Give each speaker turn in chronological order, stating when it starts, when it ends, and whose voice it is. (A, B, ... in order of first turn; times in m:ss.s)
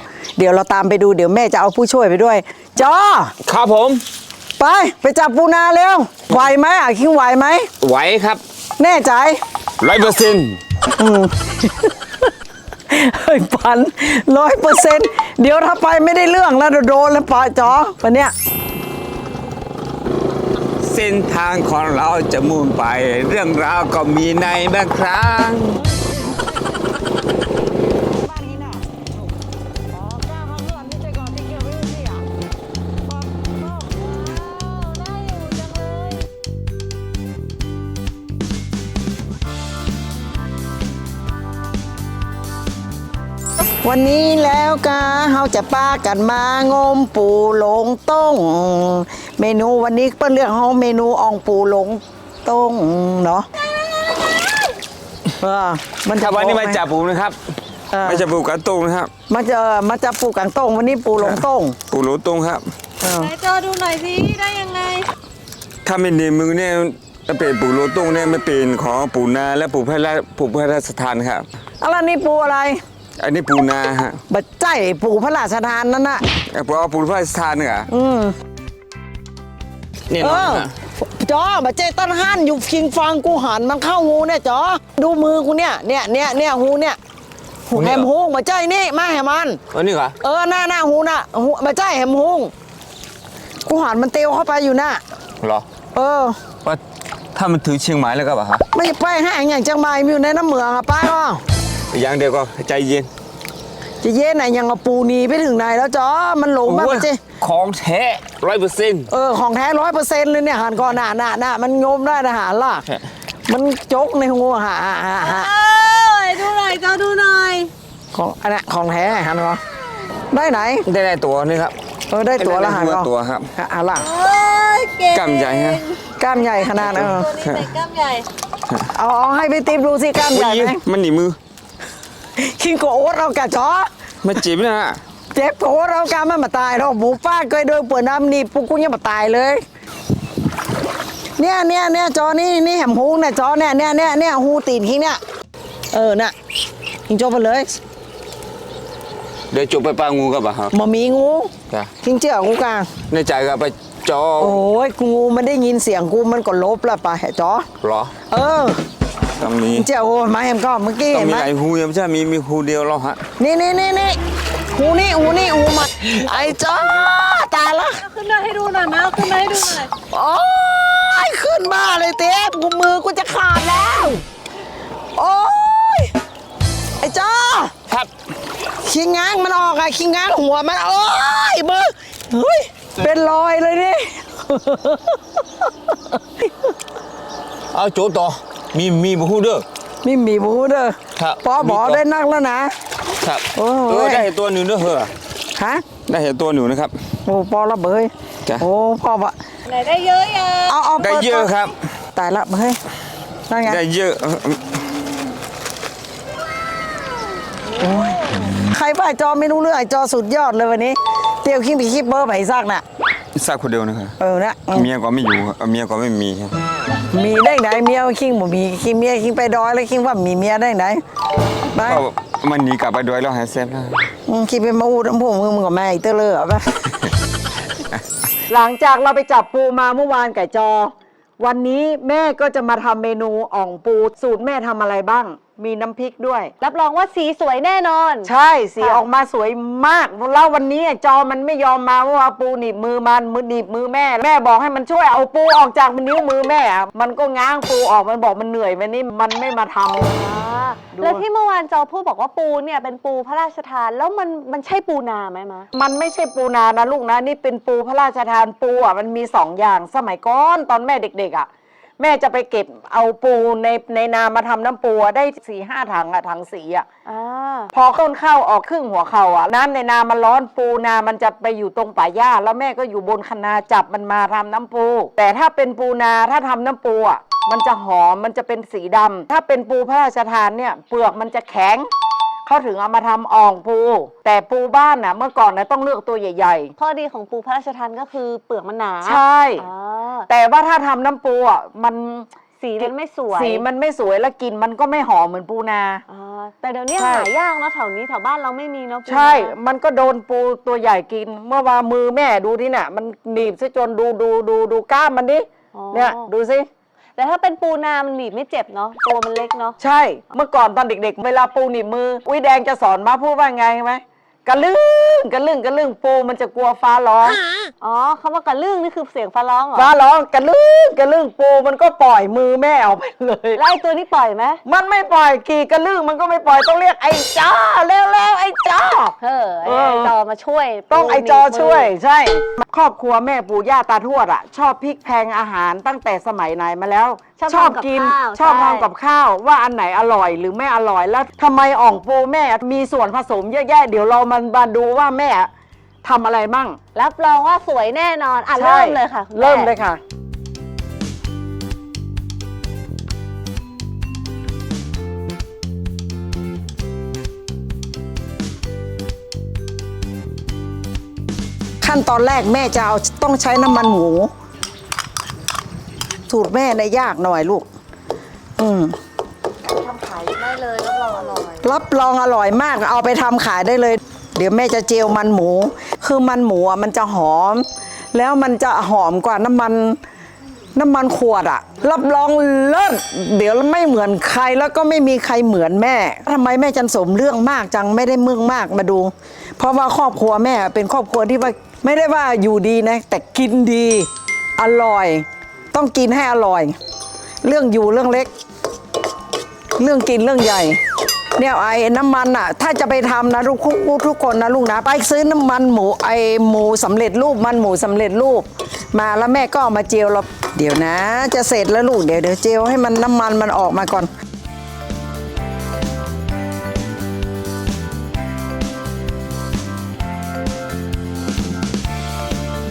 0:00.4-0:03.3 A
0:03.4-0:04.0 B
0:04.6-0:07.7 A
0:07.8-0:08.4 B
0:08.8-0:09.4 A
0:09.8-0:10.6 B
0:11.0-0:12.2 A
0:12.9-0:18.3 A
0:20.8-0:25.8 B
0:25.8-0:26.5 A
0:28.0-0:29.1 A
0:29.9-0:32.3 A
0:33.1-0:34.6 A
0:34.2-0:36.2 C
0:35.4-0:35.9 A
0:43.8-0:53.5 A
0:55.4-0:56.8 A
0:56.2-0:57.4 B
0:57.9-0:58.2 A
0:58.0-0:59.1 B
0:59.3-1:01.8 A
1:01.2-1:02.6 B
1:03.0-1:03.3 A
1:03.2-1:05.1 C
1:05.8-1:11.5 B
1:11.8-1:12.8 A
1:13.2-1:14.2 B
1:14.3-1:16.2 A
1:16.5-1:17.9 B
1:17.9-1:18.4 A
1:20.1-1:20.7 B
1:20.2-1:27.0 A
1:27.7-1:29.6 A
1:27.8-1:28.1 B
1:29.7-1:30.2 B
1:30.2-1:32.5 A
1:33.7-1:35.0 A
1:35.9-1:36.4 A
1:37.4-1:38.6 B
1:38.7-1:41.4 A
1:41.9-1:43.1 B
1:44.0-1:47.2 A
1:46.7-1:49.1 B
1:49.1-1:52.9 A
1:53.5-1:55.5 A
1:55.2-1:57.7 C
1:58.1-1:59.6 A
2:00.3-2:00.9 A
2:00.9-2:01.8 B
2:02.1-2:04.1 A
2:02.3-2:03.5 B
2:04.0-2:08.3 C
2:05.1-2:05.8 B
2:06.2-2:07.3 A
2:06.8-2:07.7 B
2:08.9-2:10.8 A
2:10.3-2:11.4 B
2:12.4-2:13.9 A
2:14.2-2:15.0 B
2:15.3-2:19.6 A
2:21.4-2:25.2 A
2:25.9-2:26.3 A
2:27.1-2:27.8 A
2:29.5-2:30.7 B
2:30.7-2:32.9 A
2:33.1-2:34.6 B
2:34.4-2:37.7 A
2:37.8-2:38.1 B
2:38.3-2:38.8 A
2:39.4-2:39.9 B
2:39.7-2:41.5 A
2:41.1-2:43.2 B
2:43.4-2:44.2 A
2:44.7-2:48.0 A
2:48.0-2:49.9 C
2:50.1-2:54.2 A
2:55.2-2:56.1 A
2:57.0-2:57.7 A
2:58.8-3:05.2 A
3:07.7-3:09.6 B
3:10.0-3:12.7 A
3:11.2-3:12.0 B
3:13.2-3:15.1 B
3:13.6-3:14.3 A
3:15.6-3:15.9 A
3:16.1-3:17.0 B
3:17.2-3:19.3 A
3:19.7-3:20.8 C
3:20.7-3:21.5 A
3:21.0-3:21.8 B
3:22.2-3:22.8 A
3:23.5-3:23.8 A
3:23.6-3:24.8 B
3:27.8-3:32.8 A
3:33.4-3:34.2 B
3:34.2-3:34.9 A
3:34.7-3:36.6 B
3:37.1-3:41.0 A
3:41.7-3:42.0 A
3:41.8-3:44.1 B
3:44.3-3:47.0 A
3:48.5-3:56.5 A
3:56.6-3:59.0 C
3:58.2-4:10.2 A
4:10.2-4:15.7 C
4:10.9-4:11.2 A
4:15.7-4:21.5 A
4:22.0-4:26.9 A
4:27.1-4:27.7 C
4:27.7-4:41.9 A
4:42.5-4:46.7 A
4:46.8-4:50.3 C
4:49.0-4:49.6 A
4:50.3-4:56.0 A
4:52.6-4:53.6 C
4:56.1-4:59.5 C
4:57.0-4:57.3 A
4:59.1-5:06.7 A
5:05.7-5:06.3 C
5:07.2-5:09.8 C
5:09.8-5:17.4 A
5:17.8-5:19.9 C
5:19.8-5:23.6 A
5:23.6-5:24.6 C
5:24.6-5:30.1 A
5:29.2-5:31.9 C
5:30.9-5:45.5 A
5:37.4-5:38.9 C
5:46.0-5:46.8 A
5:47.0-5:49.7 C
5:48.6-5:50.0 A
6:01.8-6:04.3 A
6:06.3-6:07.7 A
6:08.6-6:09.0 A
6:09.7-6:11.7 C
6:11.6-6:20.0 A
6:20.8-6:36.8 A
6:37.4-6:38.3 A
6:39.8-6:40.8 A
6:41.4-6:54.1 A